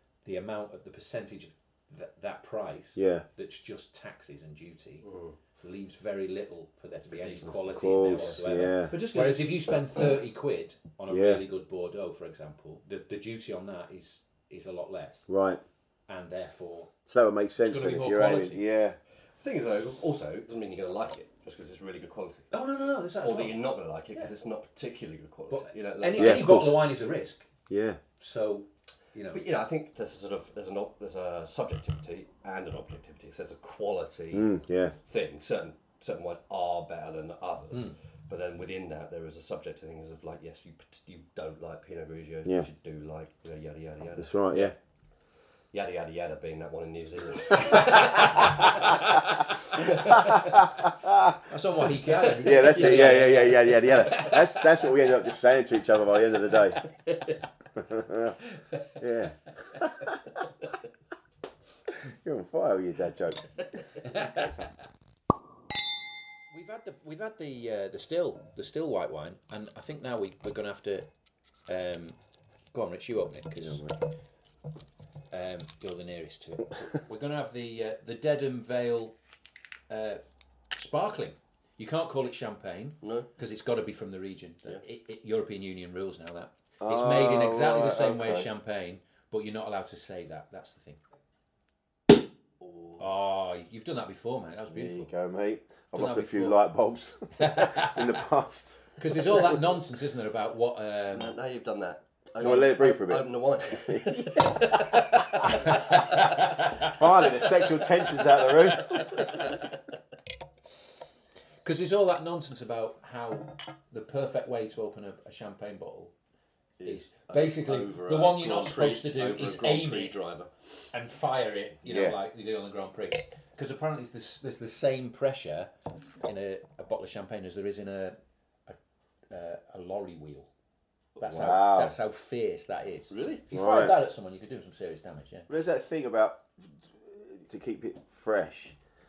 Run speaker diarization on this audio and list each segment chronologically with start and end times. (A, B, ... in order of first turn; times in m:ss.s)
0:00.2-0:05.0 A
0:03.0-0:03.2 B
0:05.0-0:05.4 C
0:05.6-0:15.3 A
0:07.1-0:09.8 C
0:07.7-0:09.0 B
0:11.1-0:11.4 B
0:15.3-0:15.6 B
0:16.1-0:16.9 A
0:17.1-0:19.0 B
0:17.6-0:18.6 A
0:19.4-0:22.5 C
0:22.5-0:24.3 A
0:23.2-0:26.6 C
0:25.5-0:27.5 A
0:26.1-0:26.8 B
0:27.7-0:28.0 B
0:28.2-0:29.4 A
0:29.3-0:44.6 C
0:34.3-0:34.9 B
0:44.2-0:44.7 B
0:45.7-0:50.6 C
0:47.7-0:49.0 A
0:50.1-0:51.4 B
0:51.5-0:54.7 A
0:52.2-0:54.4 C
0:52.4-0:56.8 B
0:56.9-0:57.4 C
0:57.8-0:58.4 B
0:59.0-1:00.2 B
1:02.0-1:04.6 B
1:04.0-1:04.5 A
1:06.5-1:11.1 A
1:11.7-1:12.2 A
1:12.7-1:13.8 A
1:13.5-1:14.0 B
1:15.3-1:19.2 A
1:19.9-1:20.2 A
1:20.7-1:31.0 A
1:23.0-1:23.3 C
1:26.8-1:28.5 B
1:32.6-1:32.9 C
1:33.0-1:35.1 A
1:34.7-1:39.6 B
1:35.9-1:36.6 A
1:37.4-1:38.2 A
1:39.0-1:41.4 A
1:41.1-1:46.4 C
1:42.4-1:45.8 B
1:45.6-1:47.0 A
1:46.8-1:49.4 B
1:48.9-1:49.6 C
1:51.6-1:56.1 A
1:56.8-2:00.5 C
1:56.8-2:00.1 A
2:00.9-2:08.8 A
2:01.8-2:02.2 B
2:09.3-2:10.5 A
2:11.2-2:15.5 A
2:11.2-2:12.0 B
2:13.1-2:13.4 C
2:13.5-2:14.0 B
2:15.5-2:18.8 B